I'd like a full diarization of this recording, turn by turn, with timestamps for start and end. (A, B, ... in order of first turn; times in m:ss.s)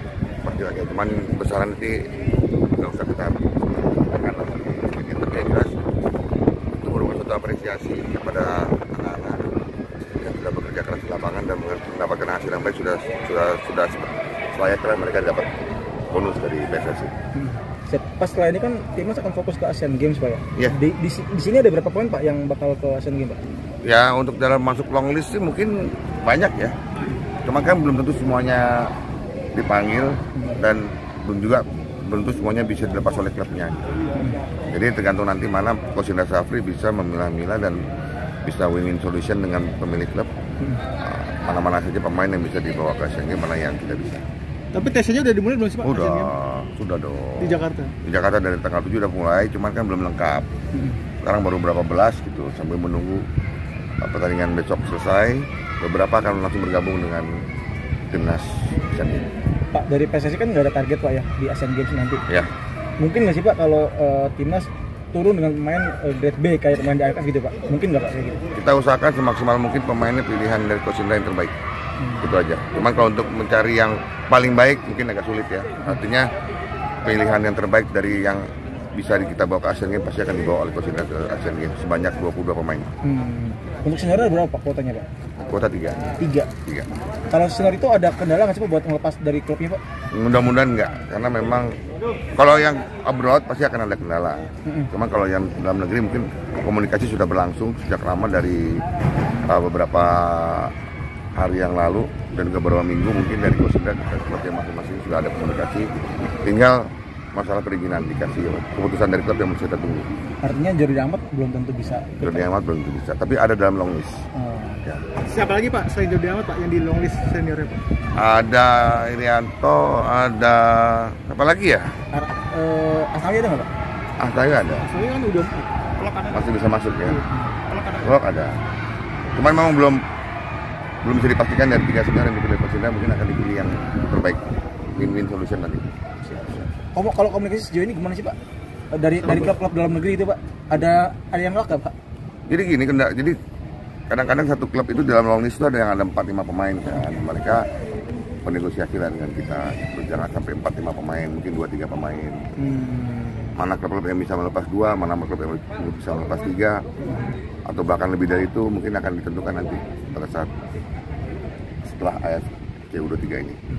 0:00.4-0:02.0 A
0:02.7-0:05.8 A
0:06.8-0:09.5 A
0:10.0-0:15.5 A
0:16.1-0:17.1 A
0:17.3-0:23.4 B
0:23.8-0:26.7 A
0:27.4-0:28.9 A
0:29.5-0:33.8 A
0:34.7-0:37.8 A
0:38.4-0:40.3 A
0:41.0-0:44.2 A
0:44.7-0:46.3 C
0:45.8-0:50.5 A
0:47.4-0:47.9 C
0:50.7-0:51.0 B
0:51.2-0:53.2 A
0:54.0-0:57.4 A
0:58.1-0:59.3 A
0:59.7-1:02.2 B
1:03.0-1:08.4 B
1:08.5-1:11.5 A
1:12.0-1:12.4 B
1:12.2-1:16.3 A
1:17.0-1:22.9 A
1:23.0-1:25.0 B
1:25.4-1:26.0 A
1:26.2-1:26.5 B
1:27.3-1:29.8 B
1:30.1-1:31.7 A
1:32.4-1:38.8 A
1:34.6-1:34.9 B
1:39.4-1:40.7 A
1:41.3-1:45.9 A
1:46.4-1:50.1 A
1:50.4-1:52.5 B
1:52.2-1:54.2 A
1:54.3-1:54.8 B
1:55.2-1:57.8 C
1:58.1-2:01.9 A
2:02.1-2:03.7 B
2:04.2-2:04.9 A
2:04.9-2:06.3 C
2:06.3-2:07.2 A
2:07.8-2:08.6 A
2:09.3-2:10.0 A
2:11.0-2:16.6 A
2:16.9-2:18.4 B
2:18.9-2:21.9 B
2:22.5-2:23.4 A
2:24.1-2:27.6 A
2:28.4-2:32.4 A
2:32.6-2:33.6 B
2:33.6-2:36.8 A
2:37.0-2:37.3 B
2:37.7-2:40.5 A
2:41.8-2:43.6 A